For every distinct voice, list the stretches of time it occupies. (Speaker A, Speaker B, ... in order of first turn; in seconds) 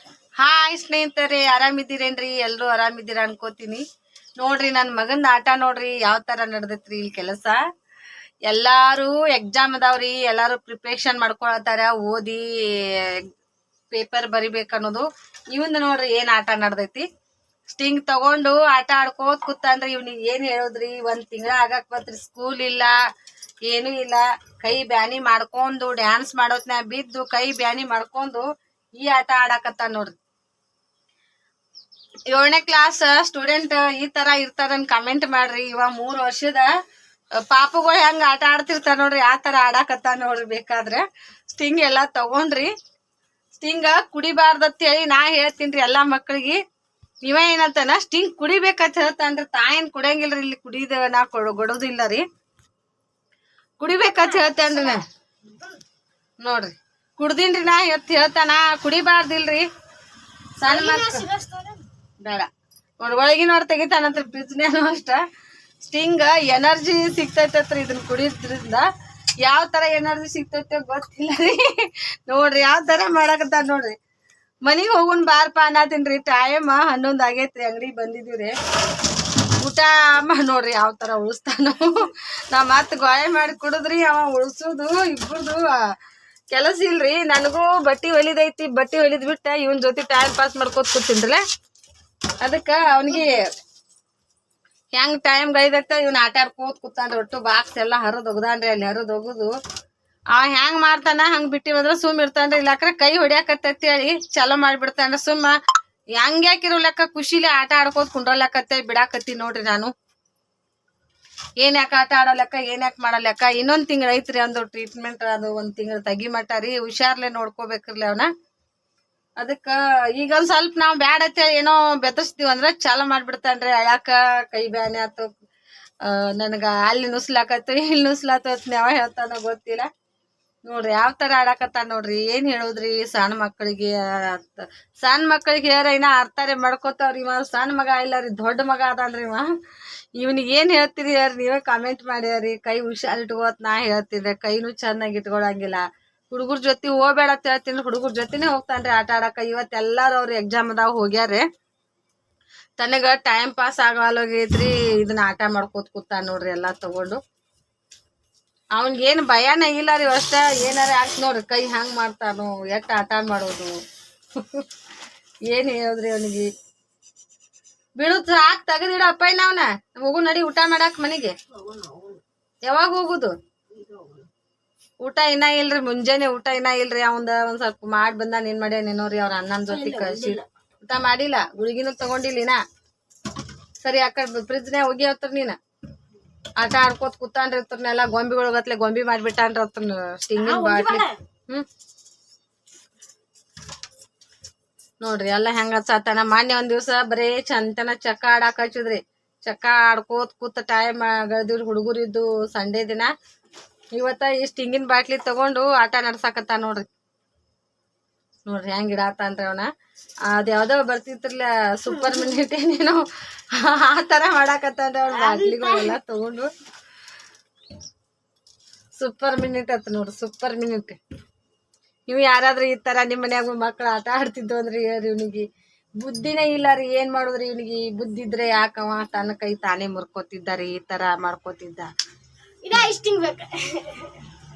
Speaker A: 0.4-3.8, 4.4-7.6, 8.5-12.4, 13.9-17.1, 17.7-22.9, 23.7-28.4, 29.0-30.1, 32.3-36.7, 37.5-42.7, 43.6-46.6, 47.2-52.2, 53.8-55.0, 56.4-59.6, 60.6-61.2, 62.2-62.5, 63.0-65.2, 65.8-68.9, 69.4-74.0, 74.7-78.5, 79.6-85.8, 86.5-91.4, 92.4-93.4, 94.9-99.5, 100.3-105.6, 106.2-109.9, 111.6-118.3, 119.4-125.3, 126.0-129.9, 130.7-139.5, 140.2-151.4, 152.8-157.2, 158.8-163.7, 164.4-164.7, 165.5-166.5, 168.0-171.3, 172.7-173.3, 175.0-182.6, 183.8-185.6, 186.6-191.7, 195.0-203.1, 204.0-206.9, 208.5-209.7, 210.3-216.5, 219.0-221.0, 222.1-225.4, 226.0-231.9
Speaker B: 54.1-55.0, 60.7-61.8, 171.5-172.2, 173.7-174.3, 179.7-180.4, 190.4-191.2, 215.1-216.0, 232.6-234.2